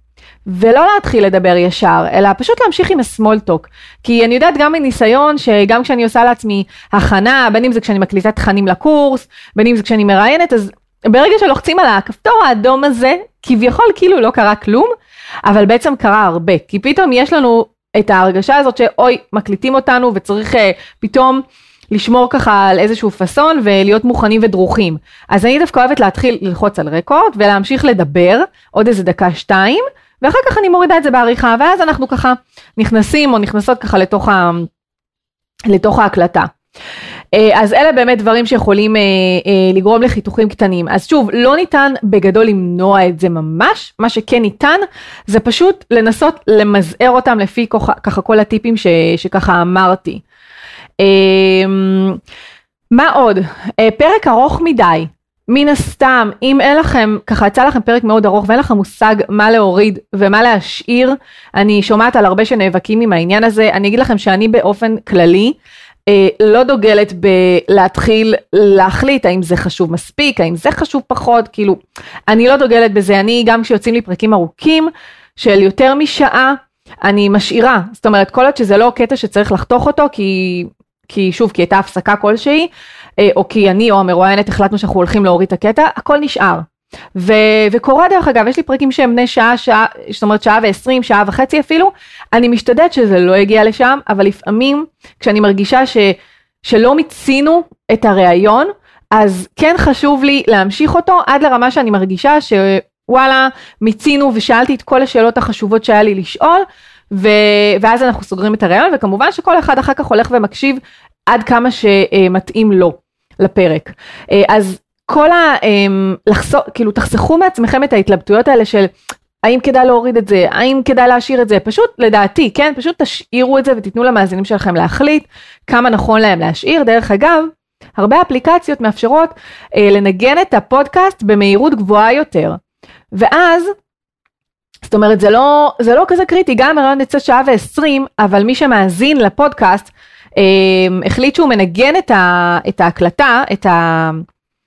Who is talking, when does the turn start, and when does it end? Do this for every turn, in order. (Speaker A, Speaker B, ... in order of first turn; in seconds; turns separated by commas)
Speaker A: 0.5-14.9, Speaker A: 15.4-34.7, Speaker A: 35.7-36.5, Speaker A: 37.3-50.2, Speaker A: 51.0-52.2, Speaker A: 52.9-65.5, Speaker A: 66.1-71.8, Speaker A: 72.3-86.6, Speaker A: 87.1-118.9, Speaker A: 119.4-132.6, Speaker A: 133.1-133.7, Speaker A: 134.8-144.2